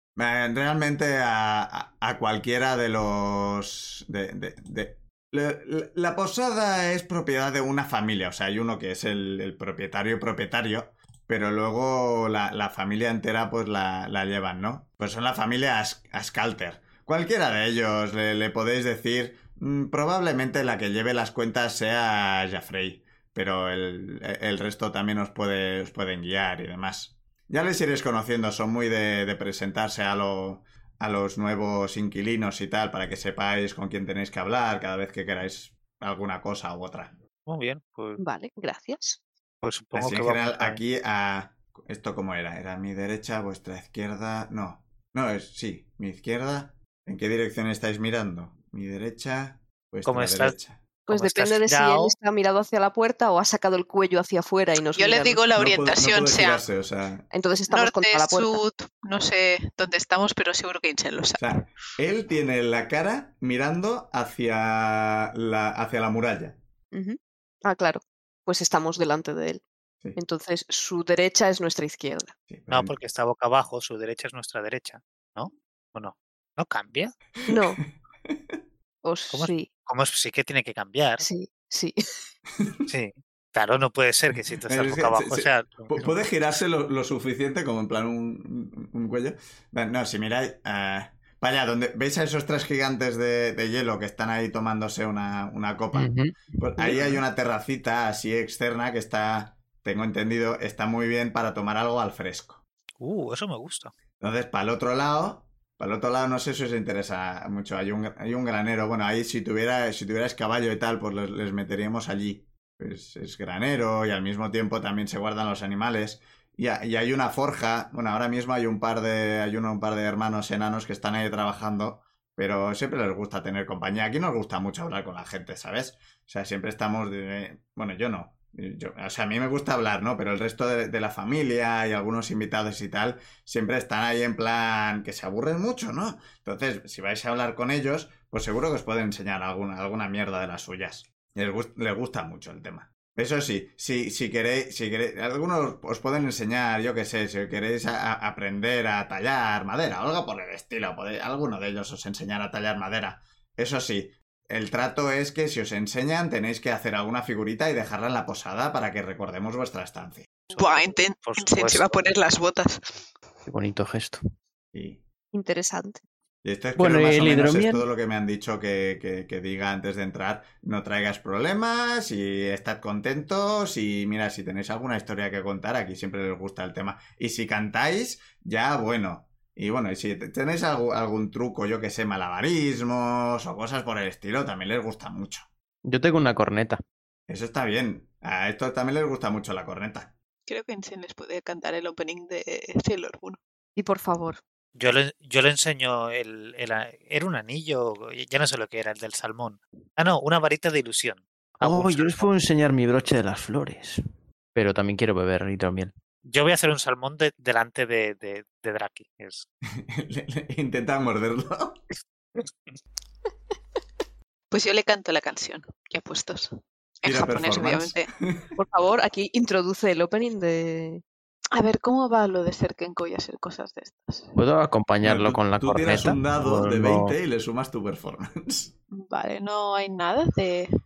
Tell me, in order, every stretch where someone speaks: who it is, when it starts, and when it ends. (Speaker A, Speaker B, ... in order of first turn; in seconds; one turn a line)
Speaker A: 0.1-37.1
Speaker B: 37.5-38.2
Speaker C: 38.2-39.2
Speaker B: 39.6-40.8
Speaker A: 39.9-50.8
Speaker B: 50.0-50.5
Speaker C: 51.1-55.4
Speaker B: 51.1-52.1
Speaker D: 55.0-56.6
Speaker A: 55.5-57.2
Speaker C: 57.3-58.6
Speaker D: 57.7-61.6
Speaker A: 61.4-66.6
Speaker C: 66.9-69.6
Speaker C: 70.2-72.3
Speaker A: 72.5-72.9
Speaker B: 72.7-77.1
Speaker A: 77.4-78.6
Speaker C: 77.5-77.8
Speaker C: 79.0-79.7
Speaker B: 79.3-81.2
Speaker C: 81.2-82.0
Speaker A: 82.6-82.9
Speaker B: 82.9-85.9
Speaker A: 84.7-102.6
Speaker E: 95.9-97.1
Speaker B: 103.0-103.9
Speaker A: 104.2-160.3
Speaker B: 160.5-162.1
Speaker D: 160.5-163.0
Speaker E: 163.4-164.2
Speaker A: 164.7-165.0
Speaker C: 165.3-166.0
Speaker A: 166.4-185.5
Speaker E: 166.8-167.8
Speaker E: 185.8-186.8
Speaker A: 187.3-190.1
Speaker D: 190.5-193.4
Speaker C: 193.8-194.4
Speaker B: 194.7-202.3
Speaker E: 201.6-204.0
Speaker E: 204.5-205.9
Speaker B: 206.2-209.5
Speaker A: 209.8-211.8
Speaker D: 214.5-216.5
Speaker D: 217.0-218.1
Speaker A: 217.0-218.5
Speaker C: 218.6-221.0
Speaker D: 221.5-224.3
Speaker E: 224.3-227.1
Speaker A: 225.0-228.7
Speaker D: 228.9-230.7